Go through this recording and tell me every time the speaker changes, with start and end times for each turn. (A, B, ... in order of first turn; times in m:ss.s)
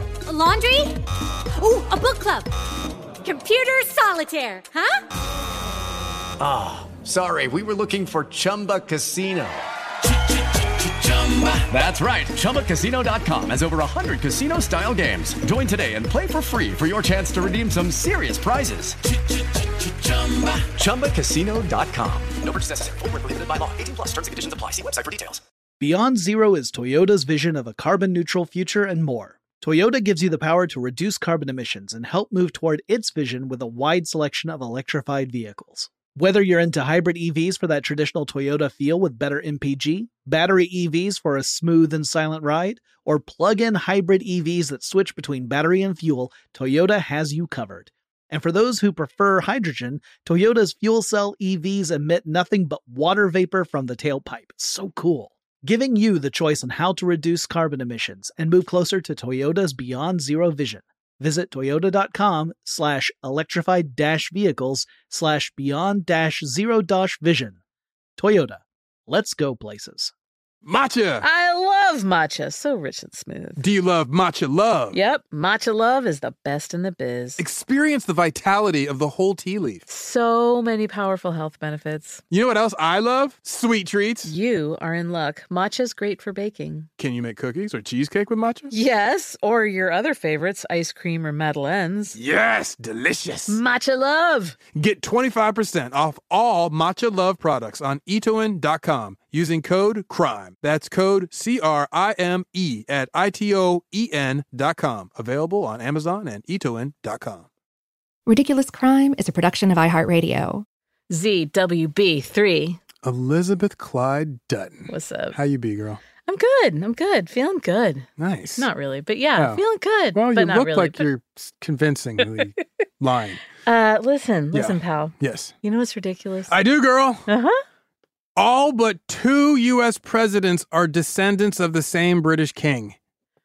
0:00.3-0:01.0 A
0:01.5-0:02.5 A
0:03.2-0:05.0 A
0:06.4-0:09.6 B
0:10.5-0:19.0 B
0:19.6-0:25.4 B
0:25.8-1:07.6 C
1:08.2-1:10.1 C
1:10.6-1:11.2 D
1:11.2-1:13.6 E
1:13.6-1:15.0 D
1:14.9-1:17.4 E
1:17.4-1:19.8 D
1:19.9-1:22.2 E
1:22.3-1:24.3 D
1:24.2-1:26.9 E
1:27.0-1:28.7 D
1:28.7-1:32.2 E
1:32.2-1:33.6 D
1:33.5-1:34.6 E
1:34.7-1:47.5 D
1:48.3-1:50.6 F
1:51.1-1:52.8 E
1:53.0-1:56.0 D
1:54.9-1:55.4 E
1:56.2-2:01.1 E
1:58.2-1:58.7 D
1:59.4-1:59.6 D
2:00.1-2:03.4 D
2:03.6-2:06.6 E
2:04.5-2:05.5 D
2:06.5-2:07.2 D
2:07.3-2:07.6 E
2:08.4-2:13.0 D